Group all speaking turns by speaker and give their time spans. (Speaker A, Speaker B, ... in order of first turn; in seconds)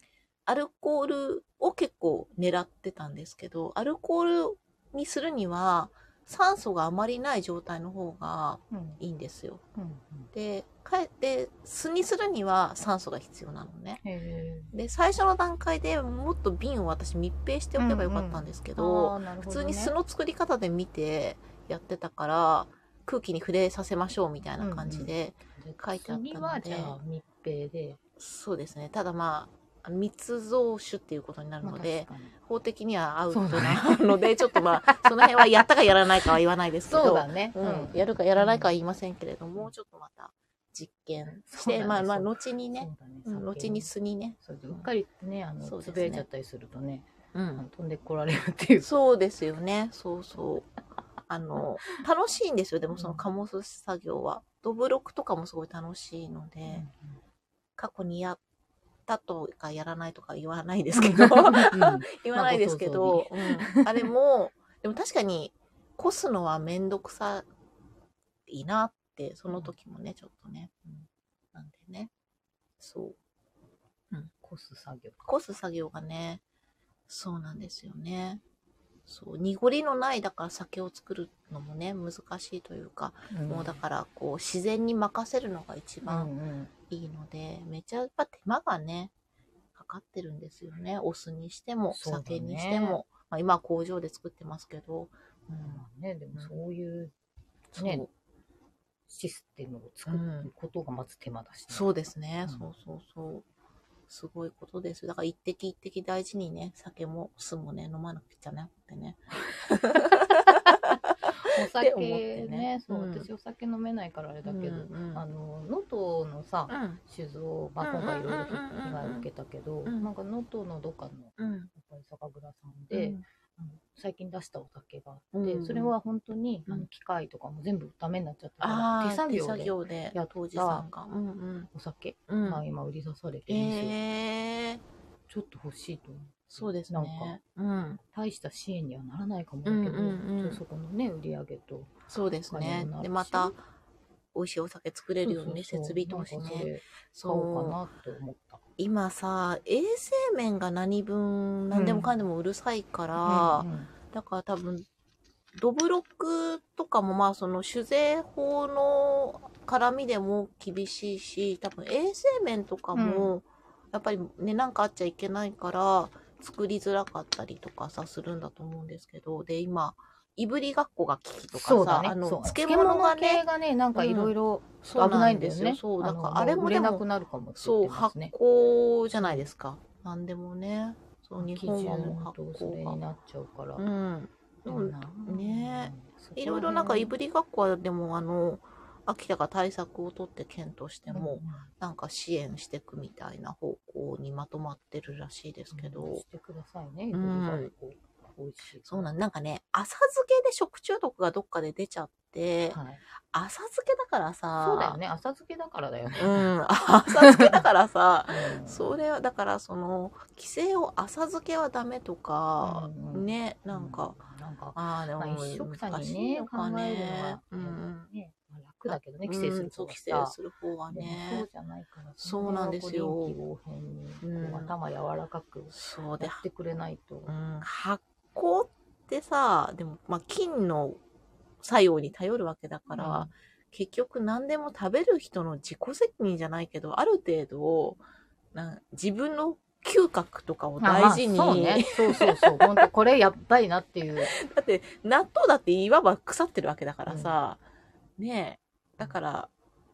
Speaker A: 0.5-9.6, 10.3-14.0, 14.7-27.0, 28.2-44.9, 45.6-46.2, 47.3-47.6, 48.8-50.7, 51.3-56.9, 57.8-58.4, 59.1-67.5, 68.5-70.7, 71.5-72.1, 72.8-73.2, 75.2-76.4, 77.1-78.4, 79.1-86.3, 86.9-89.1, 89.7-96.6, 97.7-98.1, 100.1-100.5, 101.7-103.5, 104.1-111.0, 111.8-113.3, 114.5-115.2, 116.7-117.0, 117.8-119.3, 121.4-121.7, 122.9-123.2, 125.3-125.9, 128.6-131.7, 132.3-132.6, 133.5-134.8, 136.5-138.0, 139.7-140.6, 142.1-143.6, 144.3-147.8, 148.8-154.9, 155.6-177.0, 177.6-183.0, 183.8-196.2, 197.1-197.7, 198.8-202.8, 203.3-205.0, 206.2-214.2, 214.8-218.1, 218.9-221.5, 222.2-223.4, 224.2-224.7, 225.7-226.4, 227.3-231.0, 231.6-238.0, 238.5-242.9, 244.3-247.6, 248.2-249.5
Speaker B: 8.7-9.0, 9.8-10.3, 14.0-14.7, 17.8-19.9, 24.6-28.0, 31.6-32.3, 33.3-35.4, 36.8-38.7, 41.3-48.9, 53.0-53.2, 56.7-57.2, 60.9-63.9, 74.4-75.2, 83.3-83.8, 86.1-86.7, 91.9-93.0, 95.6-97.1, 97.8-98.1, 99.1-101.9, 111.3-130.9, 131.7-134.0, 135.3-137.3, 138.1-142.0, 142.5-143.5, 145.2-148.6, 151.7-152.1, 153.2-153.9, 162.9-163.3, 171.5-178.3, 179.2-179.5, 181.4-183.8, 184.7-187.1, 191.1-191.7, 195.7-199.1, 202.7-203.0, 204.6-206.5, 207.2-207.6, 208.3-208.9, 212.6-220.4, 220.9-227.3, 232.9-233.3, 240.8-244.3, 247.1-247.3